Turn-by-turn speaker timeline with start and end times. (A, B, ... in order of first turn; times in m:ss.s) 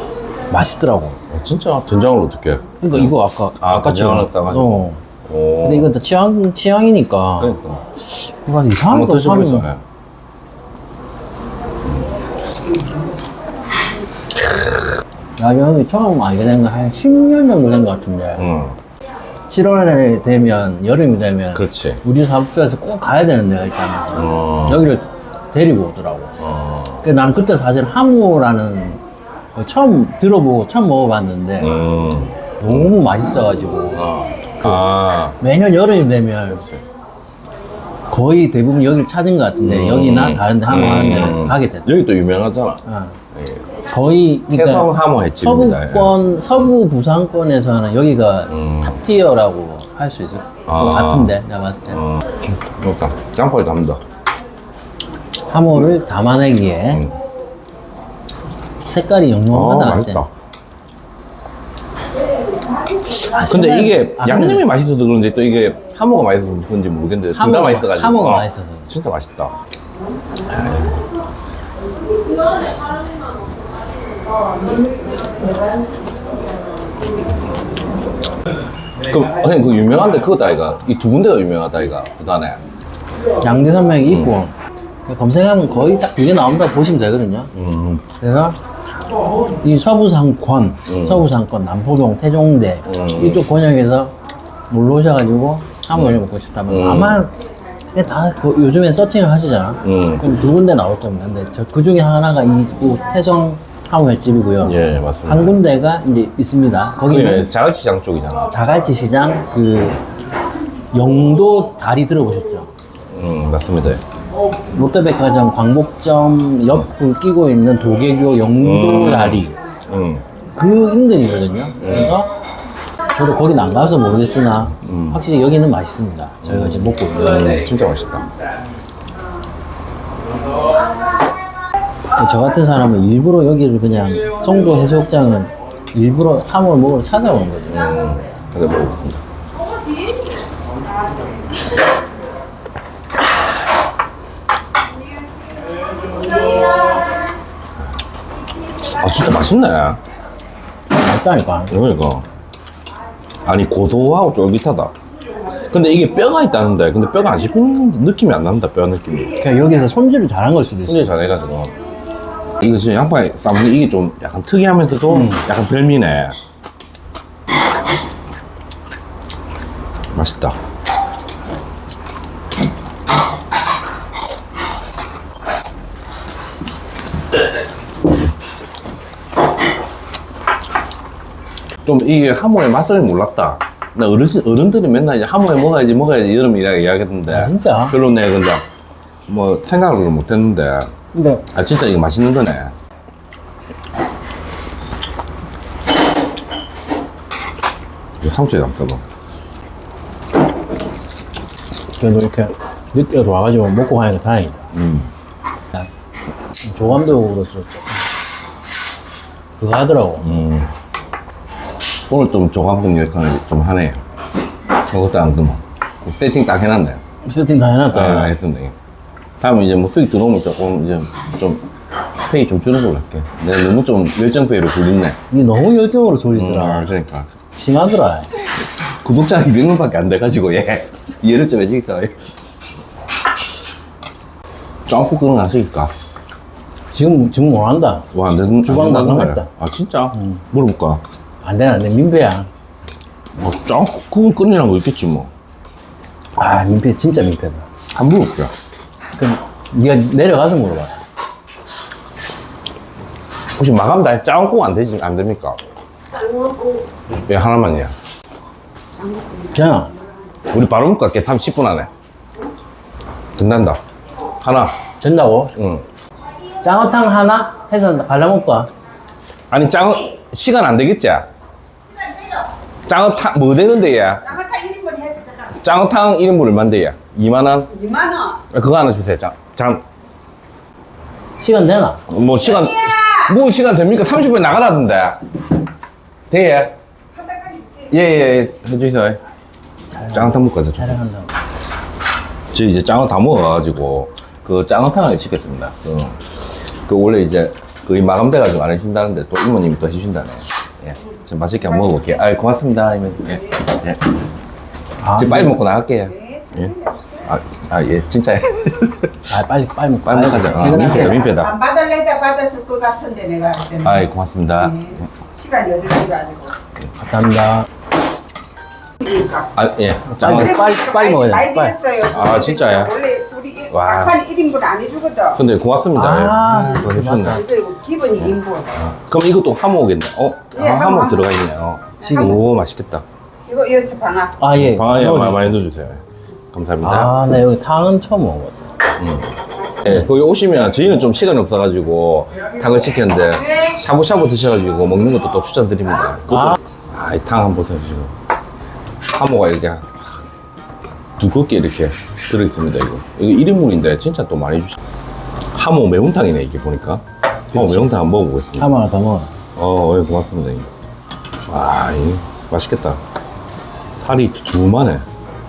0:00.5-0:01.2 A
0:01.3-0:05.9 B
0:02.8-0:05.0 A
0:05.6-0:09.6 A
0:07.4-0:07.8 B
0:08.8-0:09.8 B
0:11.8-0:12.1 B
0:15.4-0:18.4 A
0:18.4-0:18.8 B
0:19.5-0:26.3 A
0:21.5-0:22.0 B
0:24.1-0:24.9 B
0:26.4-0:27.0 B
0:27.0-0:29.0 A
0:29.5-0:31.8 A
0:31.6-0:32.9 B
0:32.6-0:34.0 A
0:33.9-0:35.4 B
0:35.4-0:36.6 A
0:36.5-0:36.8 B
0:38.1-0:41.9 A
0:39.6-0:42.8 B
0:42.8-0:43.2 A
0:43.3-0:43.6 B
0:43.9-0:52.0 A
0:44.5-0:46.2 B
0:48.5-0:49.0 B
0:50.7-0:51.4 B
0:51.9-0:54.0 B
0:55.5-0:57.0 A
0:58.9-1:00.2 A
0:59.5-1:00.3 B
1:03.1-1:04.6 A
1:03.5-1:09.5 B
1:07.3-1:08.9 A
1:10.4-1:11.0 B
1:19.0-1:22.6 B
1:23.4-1:24.5 A
1:24.0-1:24.4 B
1:25.0-1:27.5 A
1:27.5-1:28.0 B
1:28.2-1:28.6 A
1:29.6-1:34.1 A
1:30.9-1:31.3 B
1:32.8-1:33.4 B
1:34.7-1:37.3 A
1:35.9-1:37.2 B
1:37.9-1:47.5 A
1:39.8-1:40.3 B
1:44.6-1:45.6 B
1:47.0-1:48.5 B
1:48.5-1:50.0 A
1:50.9-1:52.7 A
1:53.1-1:54.0 B
1:54.7-1:59.6 A
1:58.6-2:00.2 B
2:00.5-2:02.3 A
2:01.8-2:02.1 B
2:03.1-2:07.5 A
2:04.8-2:05.2 B
2:06.4-2:08.3 B
2:12.1-2:17.9 A
2:17.7-2:19.2 B
2:28.8-2:30.0 B
2:30.9-2:31.7 A
2:31.7-2:32.2 B
2:33.4-2:34.9 B
2:35.7-2:39.4 B
2:39.3-2:41.1 A
2:40.9-2:41.7 B
2:42.6-2:46.4 B
2:45.1-2:45.4 A
2:50.1-2:50.6 B
3:01.8-3:08.6 B
3:07.3-3:08.0 A
3:09.3-3:10.9 B
3:11.1-3:11.4 A
3:11.5-3:12.7 B
3:18.2-3:19.0 B
3:22.0-3:24.6 A
3:24.7-3:25.1 B
3:26.6-3:28.0 A
3:29.6-3:30.3 A
3:30.2-3:30.7 B
3:32.1-3:34.0 B
3:34.9-3:37.0 B
3:37.2-3:38.3 A
3:37.9-3:38.8 B
3:39.4-3:41.6 B
3:42.2-3:45.2 B
3:45.3-3:46.9 A
3:46.3-3:47.3 B
3:47.5-3:48.3 A
3:48.8-3:52.2 B
3:54.9-3:55.9 B
3:56.9-3:58.0 A
3:58.1-4:01.0 B
3:58.6-3:59.5 A
4:00.1-4:00.4 A
4:01.4-4:02.5 A
4:03.4-4:05.3 B
4:06.4-4:07.7 A
4:07.9-4:08.5 B
4:09.1-4:11.0 A
4:13.6-4:15.6 B
4:17.2-4:17.9 B
4:19.0-4:19.4 C
4:19.5-4:19.9 A
4:20.5-4:21.9 B
4:23.4-4:23.8 B
4:24.4-4:24.8 B
4:25.0-4:25.5 A
4:25.5-4:25.8 B
4:26.6-4:28.7 A
4:29.5-4:31.3 B
4:32.0-4:32.4 C
4:32.8-4:34.3 B
4:34.3-4:35.5 C
4:35.6-4:37.8 B
4:37.8-4:38.4 C
4:38.5-4:39.8 B
4:41.4-4:42.0 A
4:42.1-4:45.2 B
4:42.9-4:43.1 C
4:46.3-4:46.7 B
4:47.1-4:47.9 C
4:47.9-4:49.2 B
4:49.9-4:51.3 A
4:50.1-4:51.0 B
4:52.5-5:04.1 B
5:05.0-5:05.6 A
5:05.2-5:09.1 B
5:06.2-5:07.2 C
5:09.3-5:11.2 A
5:10.0-5:11.6 B
5:11.1-5:13.9 C
5:13.8-5:15.0 B
5:14.7-5:16.5 C
5:17.0-5:17.7 A
5:19.0-5:19.5 C
5:19.5-5:20.6 B
5:20.1-5:21.8 A
5:20.5-5:25.4 C
5:22.1-5:23.0 B
5:23.7-5:24.2 B
5:25.3-5:27.4 B
5:25.9-5:27.5 A
5:27.3-5:28.7 C
5:28.2-5:33.0 B
5:30.6-5:31.0 C
5:32.0-5:32.4 A
5:33.5-5:34.4 C
5:34.4-5:35.6 A
5:34.5-5:37.2 B
5:36.8-5:38.6 A
5:39.0-5:48.1 B
5:46.3-5:46.6 A
5:49.0-5:50.2 B
5:51.2-5:54.8 B
5:55.5-5:58.7 B
5:57.5-5:57.9 A
5:58.6-5:59.3 A
5:59.6-6:00.7 B
6:01.5-6:03.0 B
6:04.0-6:05.0 B